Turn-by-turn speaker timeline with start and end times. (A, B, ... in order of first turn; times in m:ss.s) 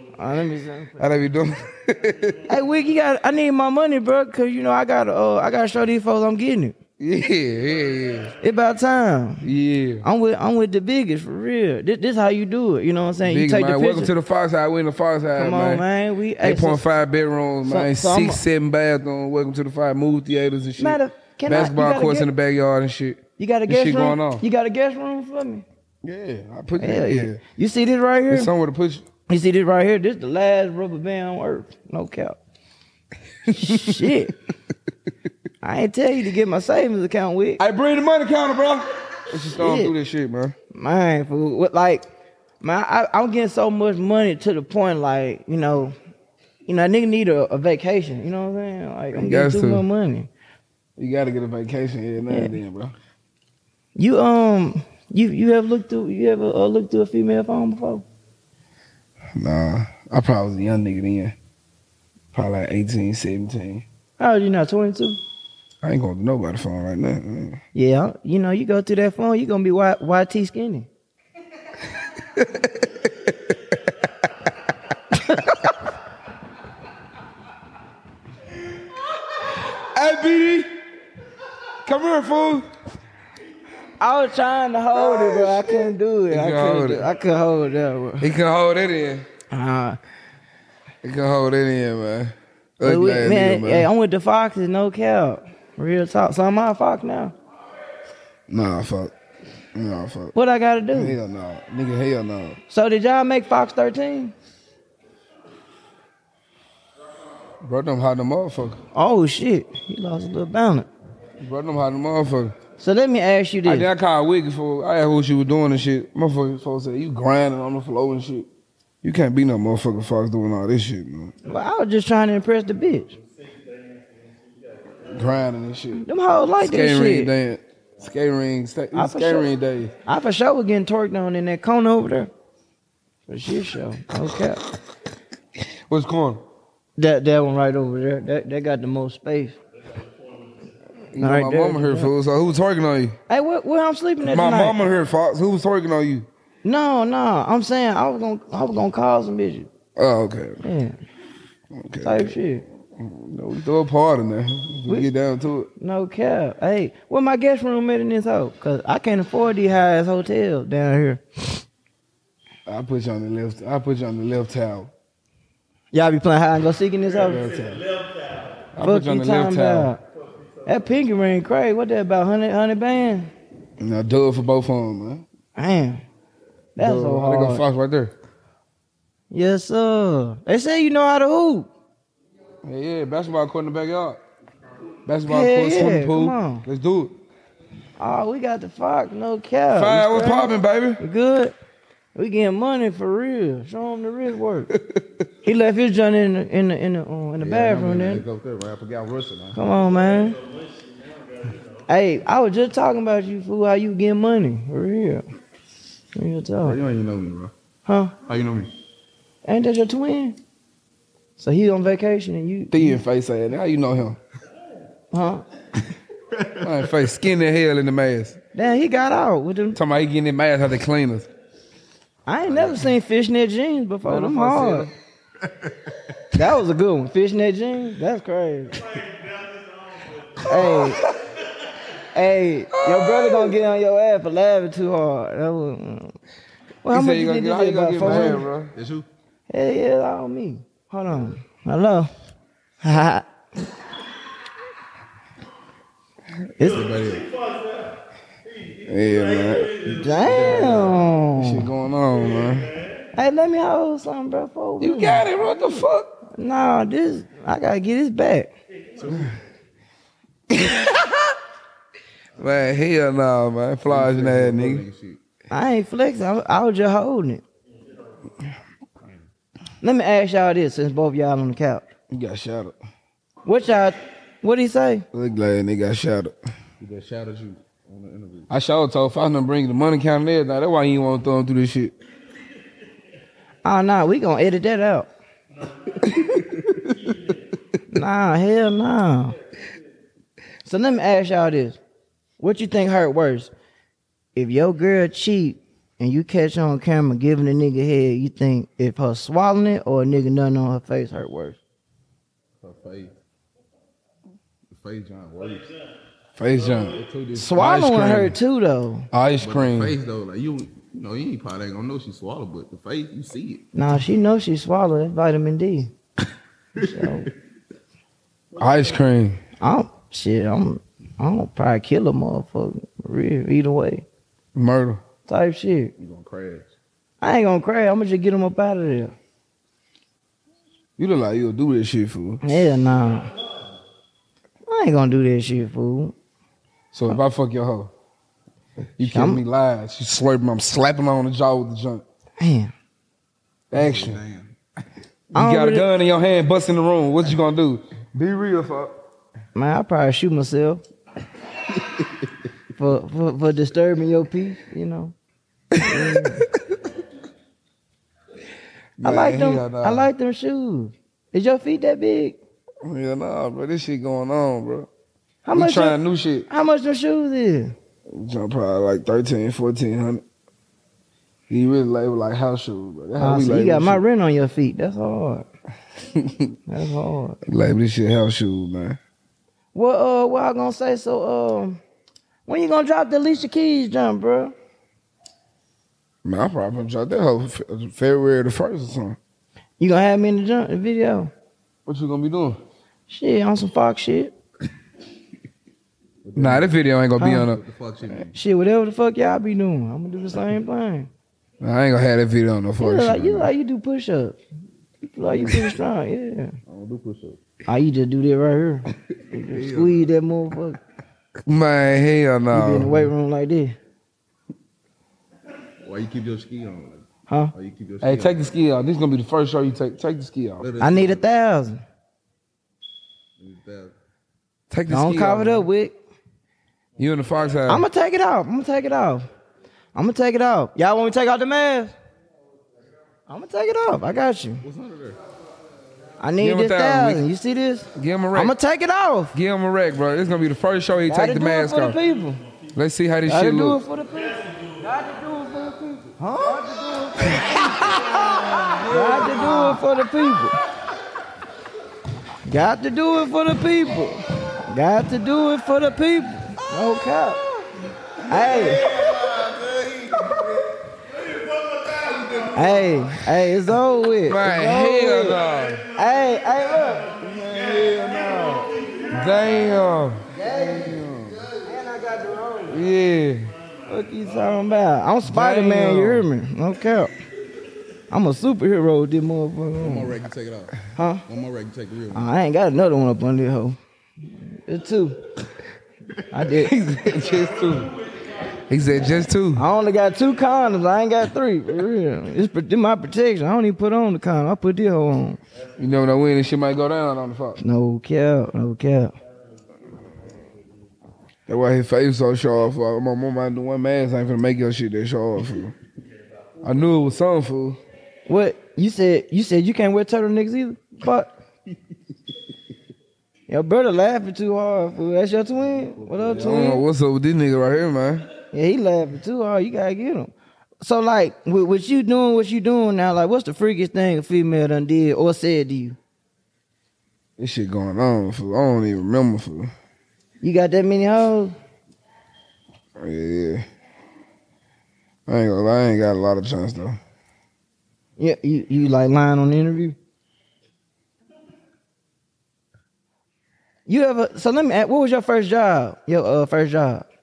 0:00.1-0:01.0 A
0:01.0-0:02.5 B
0:02.5-0:06.8 A
0:07.0-0:08.4 B
0:08.4-0:14.1 A
0:09.4-0:10.0 B
0:13.2-0:15.8 B
0:15.3-0:16.9 A
0:16.4-0:24.4 B
0:17.6-0:18.4 A
0:20.8-0:22.3 A
0:23.4-0:25.6 A
0:26.0-0:27.4 B
0:26.8-0:28.5 A
0:28.3-0:29.0 B
0:29.3-0:32.4 A
0:33.5-0:34.4 A
0:35.6-0:37.6 A
0:37.6-0:40.5 B
0:39.6-0:39.9 A
0:40.7-0:42.1 A
0:42.6-0:46.0 A
0:46.7-0:50.3 A
0:49.1-0:49.8 B
0:51.0-0:53.0 B
0:52.3-0:52.6 A
0:54.0-0:58.0 A
0:59.4-1:01.4 B
1:02.3-1:03.8 B
1:04.2-1:05.2 A
1:05.8-1:07.6 B
1:07.7-1:10.9 A
1:12.3-1:13.1 B
1:19.4-1:20.7 B
1:21.8-1:22.6 B
1:24.0-1:28.3 A
1:25.0-1:27.1 B
1:28.2-1:29.3 B
1:29.5-1:30.0 A
1:31.0-1:33.9 B
1:32.8-1:37.4 A
1:38.5-1:39.1 B
1:39.8-1:40.3 B
1:40.3-1:41.2 A
1:40.9-1:42.6 B
1:42.7-1:44.3 A
1:47.6-1:48.8 B
1:48.9-1:50.9 A
1:51.4-1:52.5 B
1:52.8-1:53.9 A
1:53.6-1:58.5 B
1:59.0-2:01.3 B
2:01.4-2:03.2 A
2:05.1-2:06.0 B
2:06.0-2:07.3 A
2:06.6-2:09.9 B
2:08.9-2:09.5 A
2:10.1-2:12.3 A
2:13.3-2:14.6 A
2:15.9-2:16.4 B
2:17.0-2:19.6 A
2:21.1-2:23.2 B
2:21.2-2:22.1 A
2:23.3-2:24.8 A
2:24.2-2:26.3 B
2:26.6-2:29.7 A
2:30.0-2:30.6 B
2:30.6-2:31.0 A
2:31.7-2:32.4 B
2:32.0-2:32.6 A
2:33.0-2:35.7 B
2:35.8-2:41.6 A
2:42.7-2:44.9 B
2:45.9-2:47.5 A
2:47.2-2:47.8 B
2:48.8-2:49.9 B
2:48.8-2:50.0 A
2:50.6-2:53.3 A
2:53.8-2:55.2 B
2:55.6-2:56.0 A
2:56.8-2:57.7 A
2:56.8-2:58.1 B
2:59.3-3:01.7 A
3:02.6-3:04.2 B
3:05.1-3:07.2 B
3:05.3-3:06.6 A
3:08.0-3:11.5 A
3:09.7-3:11.0 B
3:12.2-3:14.7 A
3:15.4-3:18.3 A
3:17.4-3:19.6 C
3:19.6-3:20.4 A
3:21.9-3:25.2 A
3:26.2-3:26.8 A
3:26.6-3:27.5 C
3:27.8-3:28.1 A
3:28.2-3:28.7 C
3:29.4-3:30.4 A
3:31.4-3:33.0 A
3:32.7-3:34.2 B
3:35.1-3:35.4 A
3:36.6-3:38.4 B
3:38.6-3:39.8 A
3:39.8-3:41.3 B
3:42.3-3:44.9 A
3:44.0-3:44.9 B
3:46.3-3:48.8 A
3:50.4-3:51.1 A
3:50.6-3:50.9 B
3:52.1-3:56.2 A
3:52.9-3:53.6 B
3:56.8-3:58.5 A
3:56.9-3:58.7 B
3:58.2-3:59.1 C
3:59.5-4:02.1 A
4:02.8-4:03.3 A
4:06.6-4:06.9 A
4:06.6-4:07.3 C
4:08.8-4:09.8 B
4:09.8-4:11.7 A
4:10.2-4:11.0 C
4:11.4-4:12.8 B
4:13.1-4:15.7 A
4:14.8-4:16.2 B
4:16.3-4:18.5 A
4:20.5-4:21.3 B
4:22.4-4:24.9 B
4:23.8-4:25.2 C
4:25.5-4:27.4 A
4:29.8-4:31.9 A
4:32.1-4:32.8 B
4:33.4-4:35.0 A
4:35.1-4:36.4 B
4:36.8-4:38.5 C
4:38.5-4:41.9 B
4:43.6-4:45.1 A
4:47.9-4:49.4 A
4:50.6-4:51.8 A
4:52.4-4:53.5 A
4:54.4-5:01.6 A
5:02.6-5:03.2 C
5:04.7-5:05.7 C
5:06.4-5:07.0 B
5:06.8-5:07.6 C
5:07.3-5:09.1 A
5:07.5-5:08.4 B
5:09.1-5:10.0 B
5:09.4-5:13.6 C
5:13.7-5:15.9 A
5:16.8-5:17.3 A
5:18.6-5:19.4 B
5:19.6-5:24.1 A
5:24.6-5:25.0 B
5:25.3-5:25.9 A
5:26.0-5:26.7 C
5:27.2-5:29.2 A
5:31.0-5:32.4 B
5:32.4-5:33.3 A
5:34.7-5:36.2 A
5:36.9-5:37.9 B
5:39.0-5:42.0 B
5:39.0-5:39.4 A
5:42.4-5:42.7 A
5:43.7-5:44.2 B
5:43.7-5:44.5 C
5:45.3-5:48.9 B
5:45.3-5:45.9 A
5:49.5-5:50.8 A
5:52.7-5:55.2 A
5:55.8-5:56.5 A
5:59.0-6:00.1 B
5:59.0-6:02.4 A
6:02.8-6:04.9 B
6:05.4-6:07.8 A
6:05.5-6:06.5 B
6:08.1-6:10.2 B
6:11.5-6:14.0 B
6:13.2-6:15.5 A
6:16.1-6:16.5 B
6:16.7-6:17.4 A
6:17.5-6:19.0 B
6:19.7-6:21.8 A
6:22.5-6:24.6 A
6:26.2-6:29.2 B
6:29.8-6:31.3 A
6:31.9-6:32.6 B
6:33.1-6:34.4 A
6:36.2-6:36.7 C
6:36.4-6:37.6 B
6:37.2-6:37.5 A
6:37.4-6:38.4 C
6:38.3-6:41.1 A
6:41.6-6:43.5 B
6:42.8-6:44.4 A
6:45.1-6:46.5 A
6:46.7-6:47.4 C
6:47.7-6:50.8 A
6:49.3-6:50.0 B
6:51.5-6:53.1 B
6:52.5-6:53.8 A
6:55.8-6:58.5 C
6:58.0-7:00.7 B
7:00.6-7:01.3 C
7:00.8-7:01.8 A
7:03.4-7:03.9 C
7:04.7-7:05.7 B
7:04.9-7:06.0 A
7:07.0-7:07.9 B
7:07.7-7:09.3 A
7:09.9-7:12.0 A
7:13.3-7:14.6 A
7:14.6-7:15.2 C
7:16.2-7:19.4 A
7:16.4-7:17.2 B
7:18.0-7:18.6 B
7:19.3-7:22.0 B
7:21.1-7:22.4 A
7:22.8-7:23.8 B
7:23.3-7:30.6 A
7:27.4-7:29.8 B
7:32.5-7:37.6 A
7:38.3-7:38.9 A
7:39.0-7:40.3 C
7:42.5-7:45.4 A
7:44.2-7:45.8 B
7:45.9-7:47.3 A
7:47.2-7:51.5 B
7:47.9-7:48.7 A
7:50.3-7:51.0 A
7:51.6-7:52.8 A
7:52.7-7:53.5 B
7:53.9-7:57.1 A
7:55.3-7:56.3 B
7:58.1-8:00.2 A
7:59.8-8:02.3 C
8:01.0-8:01.2 A
8:02.1-8:03.8 A
8:04.4-8:05.2 A
8:06.3-8:06.7 A
8:06.6-8:08.0 B
8:08.6-8:09.6 B
8:09.5-8:15.4 A
8:15.8-8:17.6 B
8:17.6-8:19.1 A
8:21.5-8:25.8 B
8:26.6-8:27.8 B
8:28.3-8:31.4 A
8:33.5-8:36.8 A
8:35.8-8:36.3 C
8:36.3-8:38.3 B
8:38.5-8:46.0 A
8:47.4-8:49.7 B
8:50.4-8:51.5 A
8:53.0-8:53.6 B
8:55.3-8:57.0 B
8:58.2-9:00.0 A
9:03.9-9:07.1 A